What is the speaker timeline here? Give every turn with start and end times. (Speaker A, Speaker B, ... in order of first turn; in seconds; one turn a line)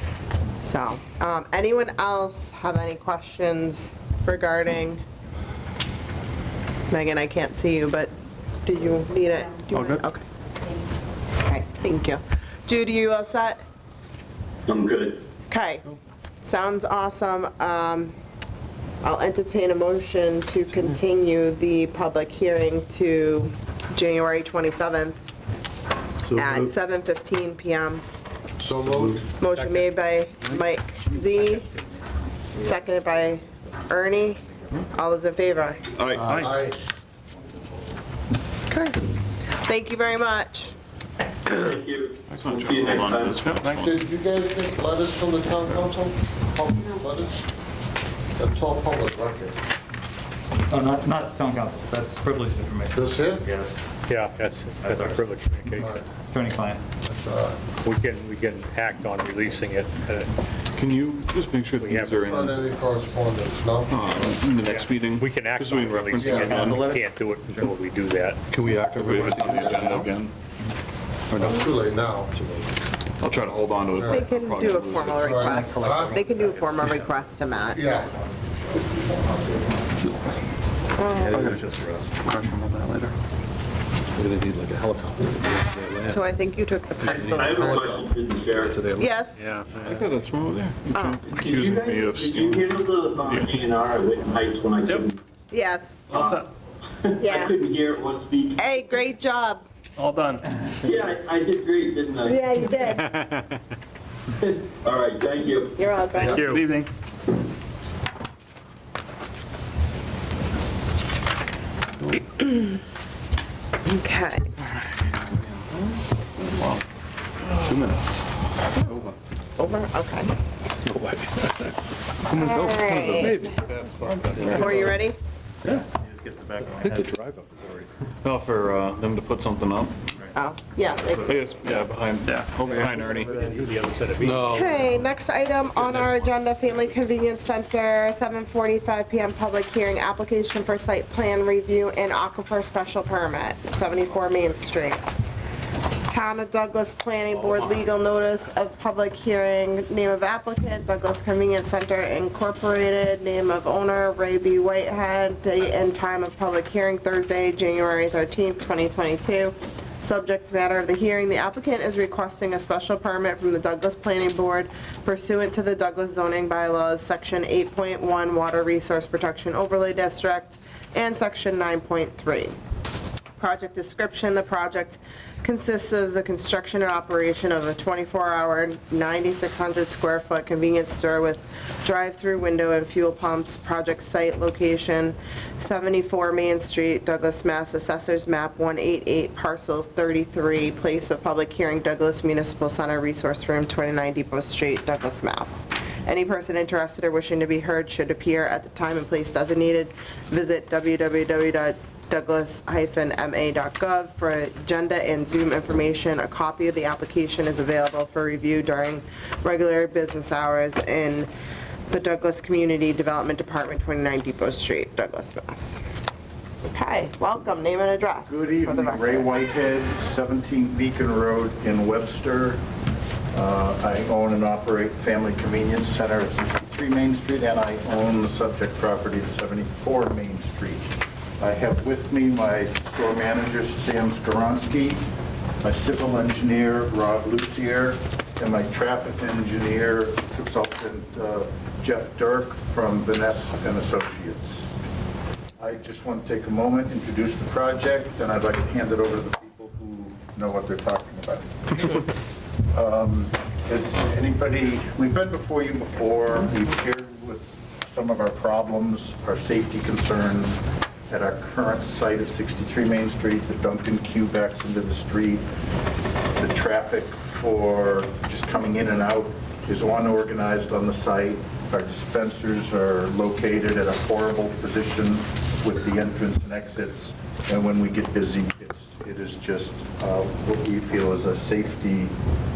Speaker A: 0.6-5.0
Speaker A: 6.9-8.1
Speaker A: 8.7-10.2
Speaker B: 9.7-10.0
Speaker A: 11.4-13.6
Speaker C: 14.7-15.2
Speaker A: 15.5-15.9
Speaker A: 16.4-18.1
Speaker A: 19.0-25.2
Speaker A: 26.3-28.0
Speaker C: 28.6-29.2
Speaker D: 28.7-29.2
Speaker A: 29.4-31.7
Speaker A: 32.6-35.9
Speaker E: 36.0-36.3
Speaker C: 36.2-36.7
Speaker D: 36.4-36.8
Speaker A: 38.7-39.0
Speaker A: 39.6-40.8
Speaker C: 41.5-44.9
Speaker E: 42.3-43.9
Speaker B: 43.5-43.9
Speaker D: 43.8-47.4
Speaker C: 45.5-47.1
Speaker D: 48.4-49.5
Speaker F: 50.7-53.7
Speaker C: 53.0-53.4
Speaker D: 53.0-53.4
Speaker G: 54.1-56.1
Speaker F: 54.8-55.2
Speaker D: 55.8-56.0
Speaker F: 55.8-56.8
Speaker C: 57.1-57.4
Speaker D: 57.3-57.5
Speaker G: 57.8-60.3
Speaker E: 60.7-62.6
Speaker G: 61.8-62.6
Speaker C: 62.3-63.8
Speaker D: 63.3-63.9
Speaker E: 63.9-67.0
Speaker G: 64.6-68.4
Speaker C: 66.2-66.5
Speaker D: 66.2-66.5
Speaker F: 66.3-67.6
Speaker E: 68.5-70.3
Speaker G: 69.0-70.0
Speaker D: 69.4-69.9
Speaker E: 71.3-71.6
Speaker C: 71.4-72.3
Speaker D: 71.4-72.0
Speaker E: 72.4-72.6
Speaker E: 73.2-75.4
Speaker C: 74.0-74.2
Speaker A: 74.1-78.0
Speaker C: 75.2-76.1
Speaker F: 75.5-75.7
Speaker D: 75.9-76.2
Speaker C: 77.8-78.0
Speaker D: 78.9-79.6
Speaker A: 81.0-81.5
Speaker B: 81.3-81.6
Speaker F: 81.3-82.0
Speaker B: 82.3-83.1
Speaker F: 84.2-86.2
Speaker A: 86.0-88.0
Speaker C: 87.1-88.8
Speaker A: 89.0-89.4
Speaker G: 89.4-90.0
Speaker E: 89.8-92.7
Speaker A: 90.9-91.2
Speaker C: 91.3-95.2
Speaker A: 95.5-96.1
Speaker B: 96.1-96.5
Speaker C: 96.1-98.7
Speaker A: 97.2-97.6
Speaker A: 98.6-99.7
Speaker B: 100.0-100.5
Speaker C: 100.8-102.4
Speaker A: 102.2-103.2
Speaker C: 104.4-105.8
Speaker A: 105.8-106.5
Speaker D: 106.2-106.4
Speaker G: 106.2-106.8
Speaker B: 106.4-106.9
Speaker A: 113.8-114.5
Speaker E: 115.6-116.0
Speaker E: 116.5-116.8
Speaker E: 117.6-118.2
Speaker A: 119.6-120.3
Speaker E: 120.9-121.4
Speaker A: 122.3-123.5
Speaker E: 122.8-124.9
Speaker F: 124.4-124.9
Speaker B: 124.4-124.8
Speaker A: 124.5-125.2
Speaker F: 126.6-127.1
Speaker E: 126.8-127.4
Speaker E: 128.2-130.0
Speaker A: 130.3-131.4
Speaker E: 131.2-133.3
Speaker B: 132.2-132.5
Speaker G: 132.6-134.8
Speaker E: 134.3-134.9
Speaker A: 134.5-145.0
Speaker A: 146.1-172.6
Speaker A: 173.4-211.3
Speaker A: 211.9-215.8
Speaker A: 216.6-219.3
Speaker H: 218.3-222.6
Speaker H: 223.3-235.0
Speaker H: 235.6-244.7
Speaker H: 245.6-252.1
Speaker H: 252.7-265.4
Speaker H: 266.4-282.1